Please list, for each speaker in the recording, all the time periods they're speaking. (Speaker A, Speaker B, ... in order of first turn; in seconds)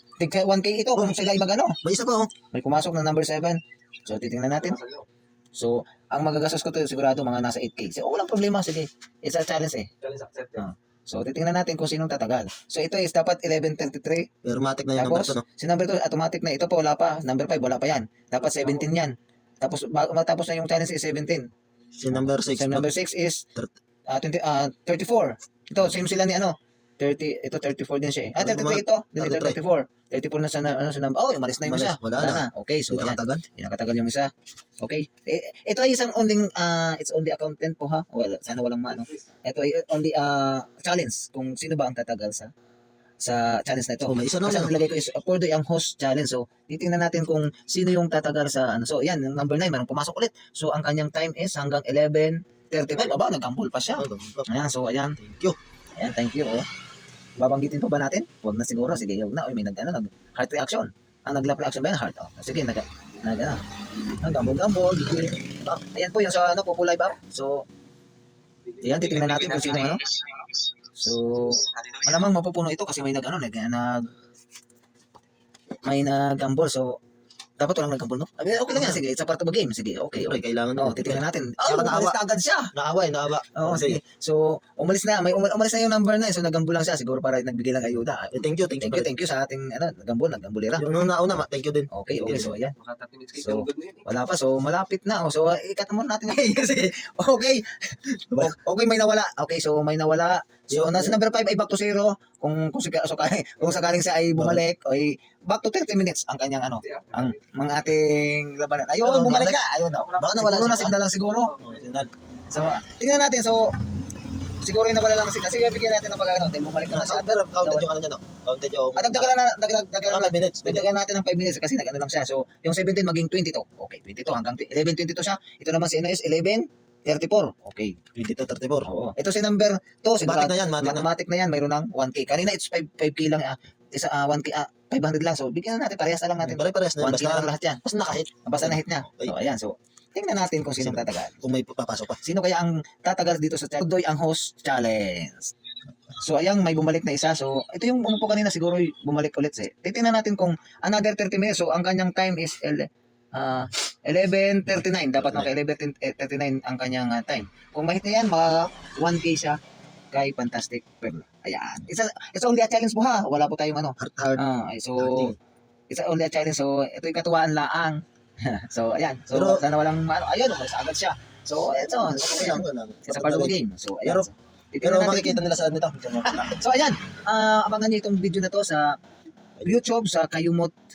Speaker A: 0.2-1.8, 2.5-4.8, 5.5-9.9, 10.5-14.3, 14.9-21.5, 22.1-23.5, 24.1-34.3, 34.8-42.5, 43.2-55.2, 56.0-56.7, 57.4-63.6, 64.1-67.7, 68.8-70.1, 71.0-74.1, 75.8-77.0, 77.6-82.7, 83.5-90.9, 91.9-92.8, 93.3-111.6, 112.5-113.8, 114.6-117.9, 119.0-128.0, 128.8-137.8, 138.4-141.4, 142.2-145.5, 146.2-159.6, 160.1-165.3, 165.9-175.4, 176.2-179.0, 179.6-180.8
Speaker B: 1.8-2.3, 14.4-15.4, 22.0-22.9, 28.4-29.6, 31.6-33.4, 44.0-44.8, 54.0-54.5, 55.2-55.6, 78.7-79.0, 80.2-82.2, 82.7-84.0, 88.3-89.1, 90.8-92.5, 100.7-101.2, 104.3-104.6, 109.0-111.0, 111.6-112.1, 116.9-119.3, 120.0-120.9, 128.1-128.9, 130.2-131.1, 136.4-139.3, 140.8-142.2, 155.2-155.5, 164.0-164.4, 165.0-165.4, 169.3-169.6, 172.0-174.3, 174.8-176.6, 179.6-179.8
Speaker C: 10.0-10.6, 68.8-70.0, 92.8-94.0, 107.0-107.3